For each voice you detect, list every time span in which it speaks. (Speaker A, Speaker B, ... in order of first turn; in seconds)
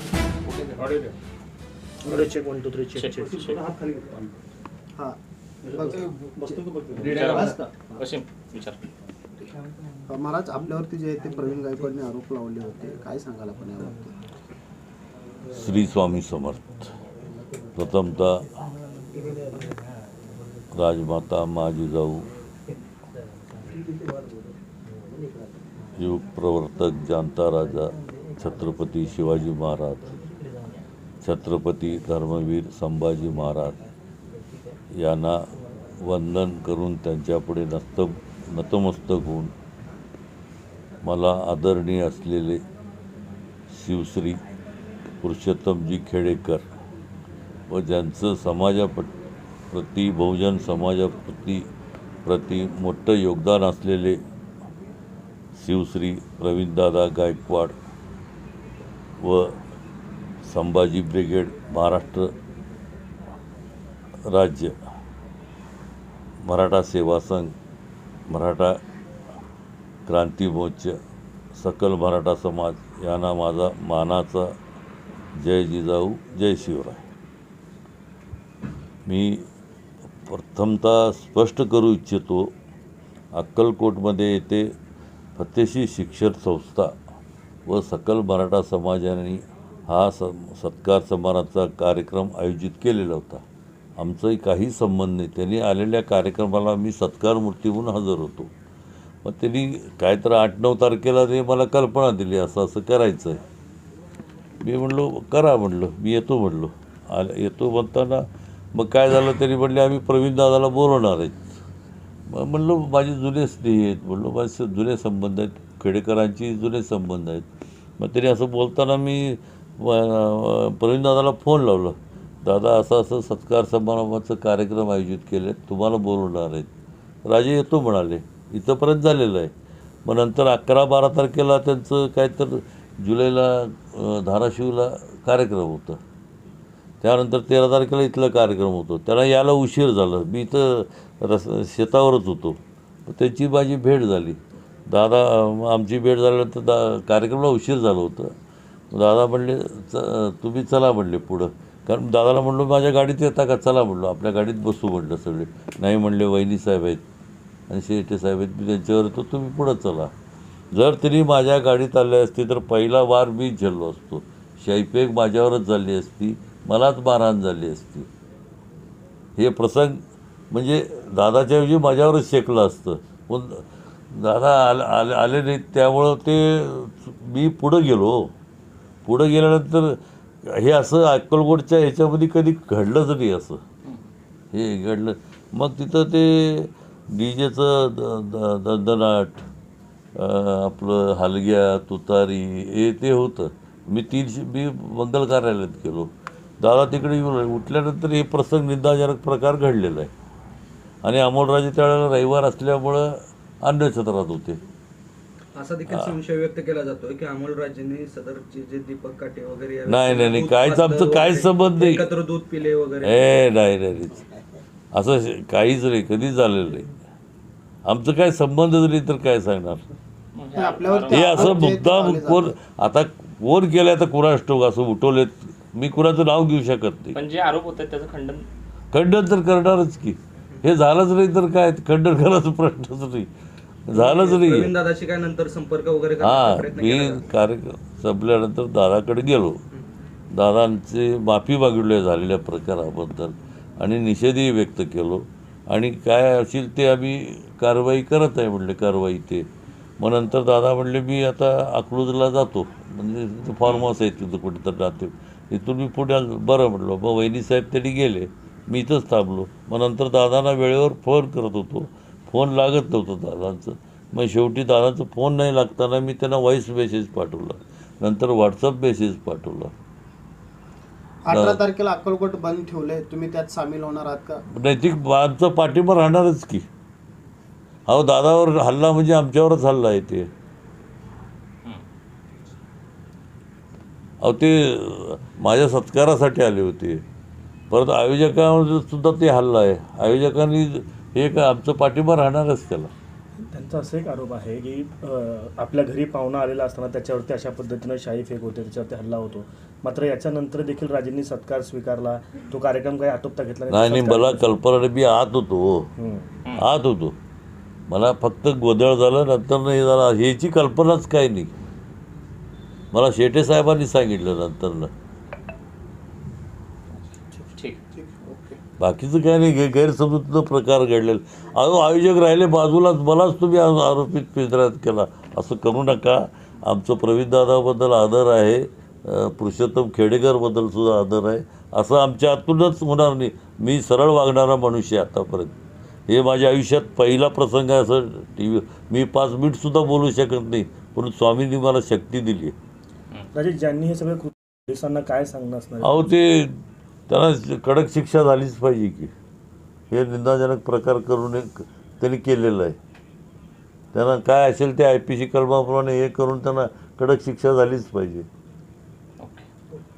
Speaker A: 0.7-1.1, 3.7-4.2, 6.9-7.7, 205.6-213.5, 233.9-237.2
Speaker B: 2.1-3.3, 293.4-304.5, 306.0-306.3, 343.3-346.1
Speaker C: 3.0-3.6, 7.0-8.8, 220.4-221.5, 227.1-228.5, 317.5-317.8, 359.2-359.4
Speaker D: 5.0-8.0, 10.1-14.2, 214.2-214.6, 220.5-222.6, 271.2-274.4, 317.4-318.6
Speaker E: 15.5-16.9, 17.8-18.7, 20.7-22.3, 26.0-30.2, 31.2-33.8, 35.0-39.5, 41.0-42.6, 43.7-44.4, 45.2-46.7, 47.7-49.1, 49.7-51.7, 52.2-54.2, 55.5-57.8, 59.2-59.6, 60.4-62.3, 64.3-64.8, 66.4-67.5, 68.3-68.8, 70.1-71.0, 71.5-74.6, 75.4-77.1, 79.1-79.5, 80.3-82.5, 83.3-84.7, 85.4-87.0, 87.7-93.4, 94.0-98.5, 99.2-103.4, 104.6-111.6, 112.3-117.5, 118.0-126.7, 127.3-129.5, 130.1-136.0, 137.0-148.3, 148.9-157.0, 157.7-160.1, 160.7-168.1, 169.4-178.3, 179.1-183.6, 184.5-189.4, 190.2-200.1, 201.0-204.6, 205.9-206.2, 209.9-212.1, 213.0-214.2, 214.9-216.9, 217.8-219.8, 221.1-227.2, 228.9-233.3, 233.9-234.8, 236.2-239.6, 240.3-249.5, 250.0-269.7, 271.3-271.6, 274.5-276.7, 277.9-280.3, 284.2-287.0, 287.7-292.9, 303.7-305.9, 306.6-307.1, 307.9-311.5, 312.9-314.9, 318.8-335.5, 336.1-342.6, 345.8-346.6, 347.1-349.1, 349.9-352.8, 353.9-358.3